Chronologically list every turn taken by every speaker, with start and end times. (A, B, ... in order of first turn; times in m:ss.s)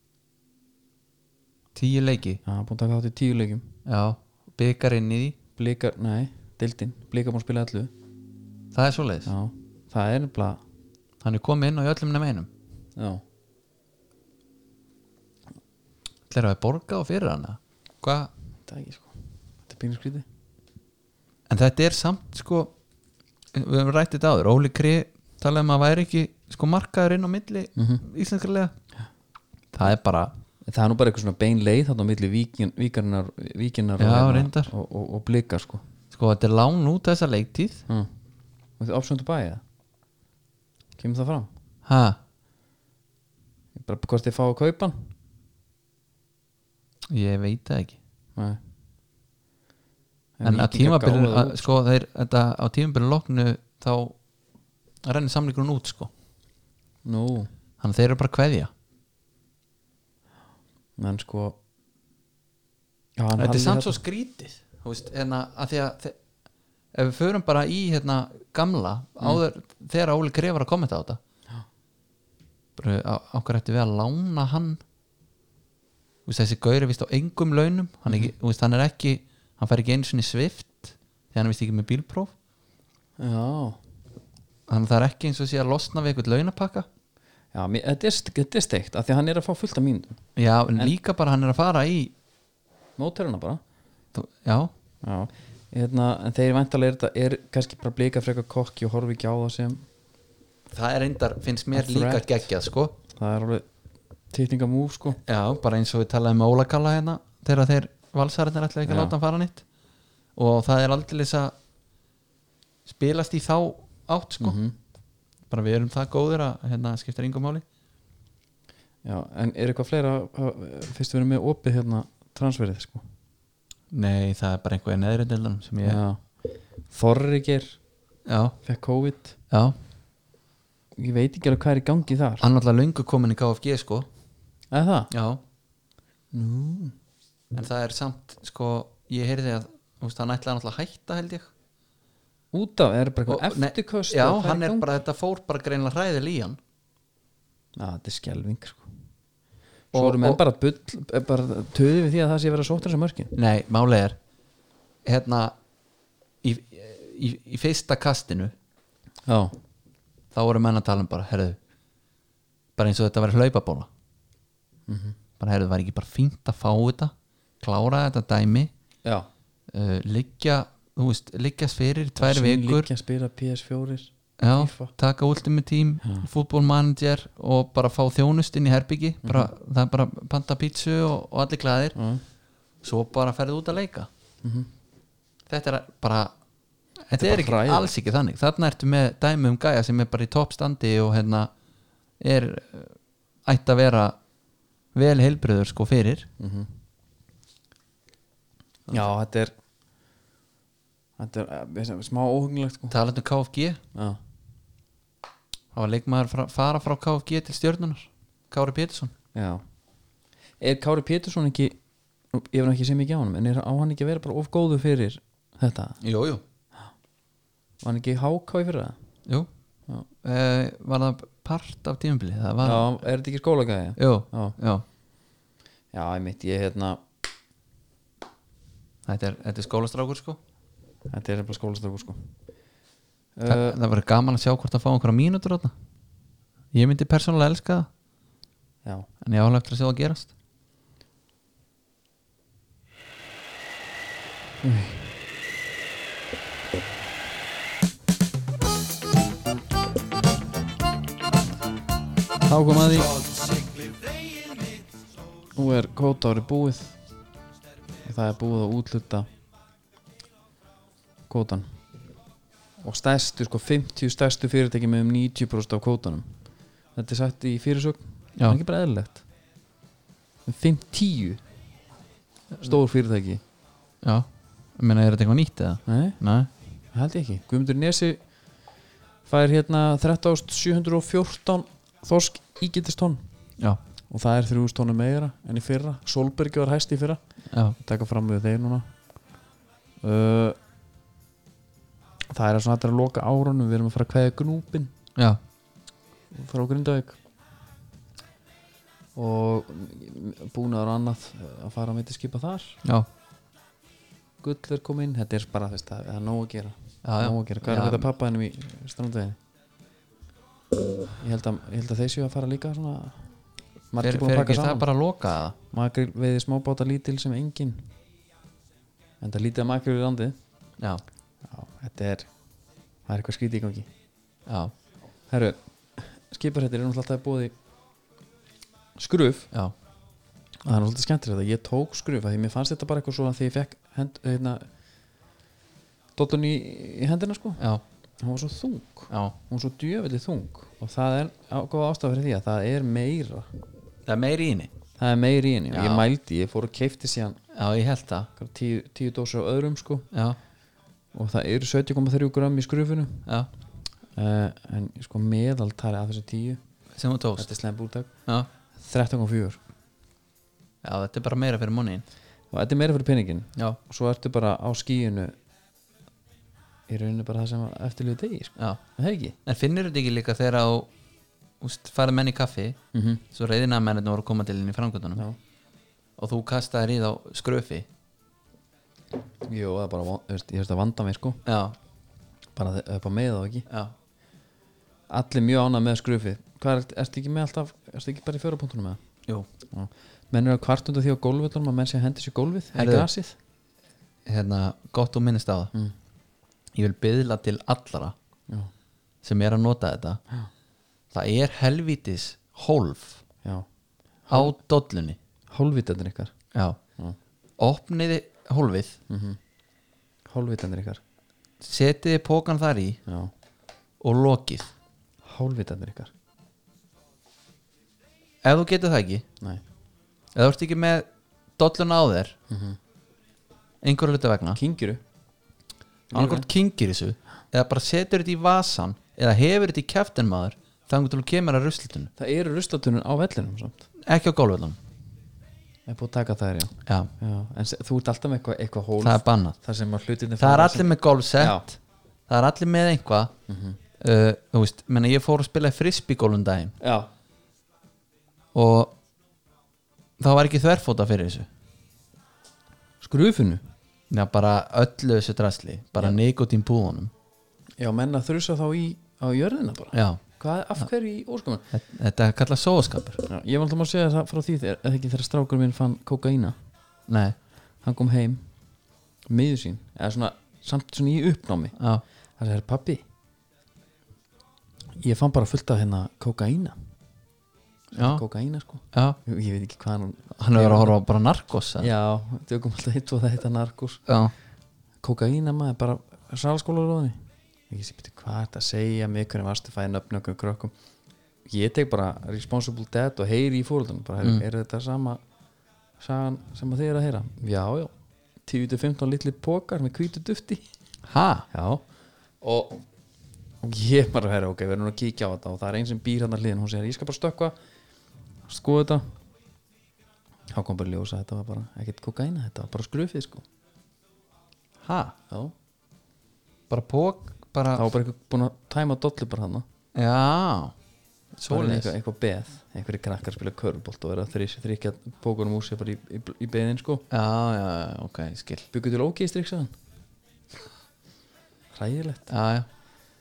0:01.8-0:02.4 A
0:02.4-0:03.7 B
0:03.9-0:05.4 A
0:05.6-0:07.9 B
0:08.7-0:09.3 A
0:09.2-0:10.6 B
0:11.2-0:12.5 A
0:13.0-0:13.2 B
0:16.3-0:18.3 A
0:18.7-0:20.2 B
0:21.5-0:22.7 A
0:23.5-0:28.8 A
0:27.8-0:28.1 B
0:29.7-0:30.3 A
0:30.7-0:35.8 B
0:34.0-0:34.7 A
0:36.1-0:37.8 A
0:38.8-0:39.6 B
0:41.0-0:41.5 B
0:41.8-0:42.2 A
0:43.8-0:45.1 B
0:47.1-0:48.0 A
0:50.4-0:51.7 B
0:50.4-0:54.2 A
0:55.0-0:56.1 A
0:57.0-0:57.5 B
0:57.8-0:58.7 A
1:01.0-1:01.6 B
1:03.2-1:04.0 B
1:03.4-1:06.2 A
1:06.9-1:11.2 A
1:12.8-1:14.8 A
1:16.3-1:22.3 A
1:23.2-1:23.8 B
1:24.7-1:26.9 A
1:27.5-1:30.2 B
1:30.4-1:32.1 A
1:33.0-1:33.6 B
1:34.1-1:34.7 A
1:35.0-1:39.8 B
1:40.7-1:43.0 A
1:41.7-1:42.3 B
1:43.1-1:43.7 B
1:44.3-1:45.2 B
1:45.3-1:49.6 A
1:48.8-1:49.2 B
1:50.4-1:51.5 A
1:52.9-1:54.6 A
1:54.4-1:54.8 B
1:55.5-1:57.6 A
1:59.0-2:03.0 B
2:03.9-2:06.0 A
2:05.8-2:07.8 B
2:08.3-2:08.6 A
2:08.6-2:09.4 B
2:09.5-2:09.8 A
2:11.0-2:12.4 B
2:12.4-2:14.1 A
2:14.7-2:15.1 B
2:15.1-2:15.4 A
2:16.3-2:17.0 B
2:17.5-2:21.5 A
2:22.5-2:24.9 B
2:23.3-2:26.6 A
2:27.8-2:28.9 B
2:29.9-2:33.3 B
2:29.9-2:30.4 A
2:33.3-2:34.2 A
2:35.0-2:35.6 A
2:36.4-2:38.5 A
2:39.3-2:39.6 B
2:40.3-2:41.6 A
2:42.8-2:43.9 A
2:44.9-2:45.2 B
2:45.4-2:48.7 A
2:49.7-2:52.9 A
2:52.2-2:54.9 B
2:54.4-3:02.0 A
2:56.0-2:56.3 B
2:59.2-2:59.5 B
3:02.0-3:02.2 B
3:02.8-3:04.1 A
3:04.4-3:04.7 B
3:05.5-3:06.3 A
3:07.1-3:11.5 A
3:07.1-3:07.9 B
3:12.2-3:14.2 A
3:14.9-3:16.3 A
3:16.4-3:16.7 B
3:18.9-3:19.5 B
3:21.2-3:23.0 B
3:22.9-3:23.8 A
3:23.9-3:24.2 B
3:25.7-3:29.1 A
3:29.4-3:29.6 B
3:30.6-3:31.8 B
3:32.3-3:36.0 B
3:36.0-3:36.4 A
3:37.8-3:39.0 B
3:40.2-3:42.9 A
3:42.6-3:44.6 B
3:44.0-3:44.8 A
3:45.9-3:47.0 B
3:49.1-3:50.4 A
3:51.1-3:52.3 B
3:53.4-3:53.8 B
3:53.5-3:55.7 A
3:56.7-3:57.9 A
3:59.2-4:00.3 A
4:04.6-4:05.1 B
4:12.4-4:13.2 B
4:15.6-4:17.0 B
4:18.0-4:19.3 B
4:21.3-4:21.7 B
4:22.8-4:26.4 B
4:27.0-4:29.2 B
4:30.5-4:31.4 B
4:32.6-4:33.4 B
4:34.0-4:36.5 A
4:35.9-4:36.2 B
4:36.9-4:38.2 B
4:39.3-4:43.3 B
4:44.1-4:47.2 B
4:47.5-4:47.8 A
4:47.8-4:48.9 B
4:50.0-4:50.6 B
4:52.3-4:54.9 B
4:56.3-4:57.2 B
4:59.2-5:02.8 B
5:04.4-5:09.4 B
5:07.0-5:08.1 A
5:11.2-5:13.3 B
5:13.9-5:14.9 B
5:14.0-5:15.6 A
5:15.7-5:17.9 B
5:19.2-5:20.4 B
5:21.5-5:22.3 B
5:23.1-5:23.9 B
5:24.5-5:24.7 A
5:25.3-5:27.5 B
5:29.0-5:29.5 B
5:30.6-5:34.7 B
5:36.2-5:37.6 B
5:38.2-5:43.5 B
5:39.1-5:39.4 A
5:44.1-5:44.7 A
5:45.0-5:47.4 B
5:45.7-5:46.1 A
5:47.5-5:48.3 A
5:48.4-5:50.1 B
5:50.1-5:50.4 A
5:51.1-5:53.3 B
5:54.2-5:56.6 B
5:57.0-5:57.5 A
5:57.4-5:58.1 B
5:58.8-5:59.6 B
6:00.8-6:02.0 A
6:02.5-6:05.4 B
6:06.9-6:09.4 B
6:09.4-6:10.9 A
6:11.6-6:12.8 A
6:12.9-6:13.2 B
6:13.3-6:15.2 A
6:16.2-6:17.9 A
6:19.5-6:21.4 B
6:21.4-6:21.8 A
6:22.6-6:23.7 B
6:23.7-6:23.9 A
6:25.1-6:29.0 B
6:29.7-6:33.4 B
6:32.8-6:33.1 A
6:34.3-6:35.7 A
6:36.7-6:38.2 A
6:39.2-6:40.2 A
6:41.1-6:43.2 A
6:44.3-6:44.5 B
6:44.3-6:45.2 A
6:45.5-6:46.3 B
6:46.5-6:46.8 A
6:47.6-6:49.0 A
6:49.1-6:49.4 B
6:50.3-6:51.0 B
6:51.6-6:53.0 A
6:54.0-6:54.7 A
6:55.3-6:56.1 B
6:58.4-6:59.2 A
7:00.3-7:01.1 A
7:01.6-7:02.4 A
7:02.5-7:02.8 B
7:03.8-7:04.6 A
7:04.6-7:05.0 B
7:06.1-7:06.5 B
7:06.1-7:12.1 A
7:12.2-7:13.9 B
7:14.0-7:14.8 A
7:15.9-7:21.7 B
7:19.0-7:19.6 A
7:20.4-7:21.8 A
7:22.3-7:23.3 A
7:23.5-7:23.8 B
7:24.0-7:26.8 A
7:26.8-7:27.1 B
7:28.5-7:29.0 A
7:30.2-7:31.5 A
7:33.0-7:33.6 B
7:34.1-7:37.1 A
7:37.8-7:41.6 B
7:39.9-7:40.2 A
7:41.7-7:43.2 A
7:43.2-7:46.6 B
7:47.1-7:47.4 A
7:47.8-7:48.4 B
7:49.3-7:51.8 B
7:51.8-7:52.0 A
7:52.4-7:53.0 B
7:55.0-7:56.8 B
7:57.9-8:01.0 B
7:58.0-7:58.2 A
7:58.9-7:59.2 A
8:00.4-8:01.9 A
8:01.8-8:04.1 B
8:04.1-8:04.3 A
8:05.0-8:07.2 B
8:07.7-8:10.7 B
8:11.5-8:15.2 B
8:16.0-8:17.9 B
8:18.5-8:20.6 B
8:21.1-8:21.5 A
8:21.5-8:21.8 B
8:22.5-8:22.7 B
8:23.6-8:27.6 B
8:28.5-8:29.2 B
8:30.5-8:33.4 B
8:34.8-8:35.2 A
8:36.7-8:37.9 A
8:37.7-8:39.6 B
8:40.0-8:40.7 A
8:41.4-8:41.9 A
8:41.5-8:47.0 B
8:47.1-8:48.7 A
8:48.7-8:49.7 B
8:51.7-8:52.3 B
8:52.3-8:52.7 A